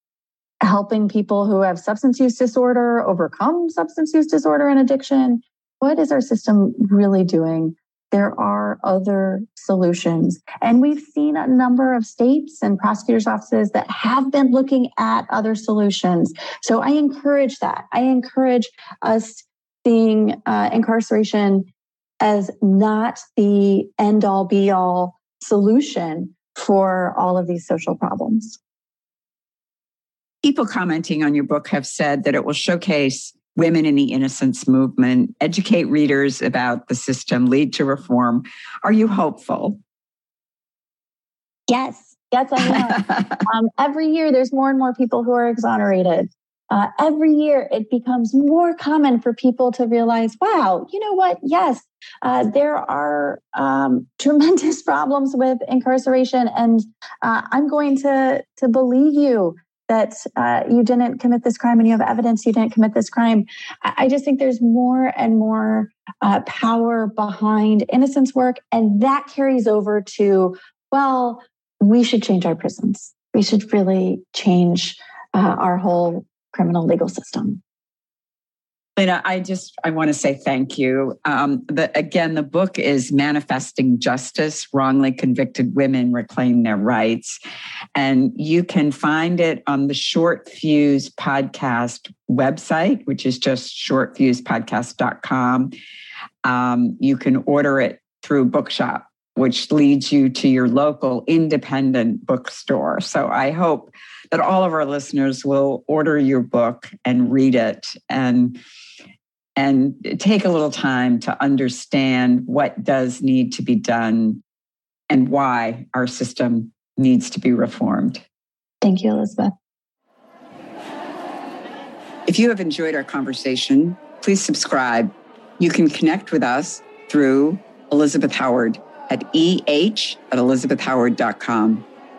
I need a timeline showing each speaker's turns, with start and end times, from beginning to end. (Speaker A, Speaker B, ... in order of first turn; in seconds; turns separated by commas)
Speaker A: 0.6-21.7, Speaker A: 22.2-28.6, Speaker B: 30.4-39.8, Speaker A: 41.7-77.6, Speaker B: 42.7-43.4, Speaker B: 79.0-87.4, Speaker B: 88.0-95.7, Speaker B: 96.5-108.6, Speaker B: 109.6-114.4, Speaker B: 115.1-118.2, Speaker A: 118.8-119.5, Speaker B: 122.3-131.8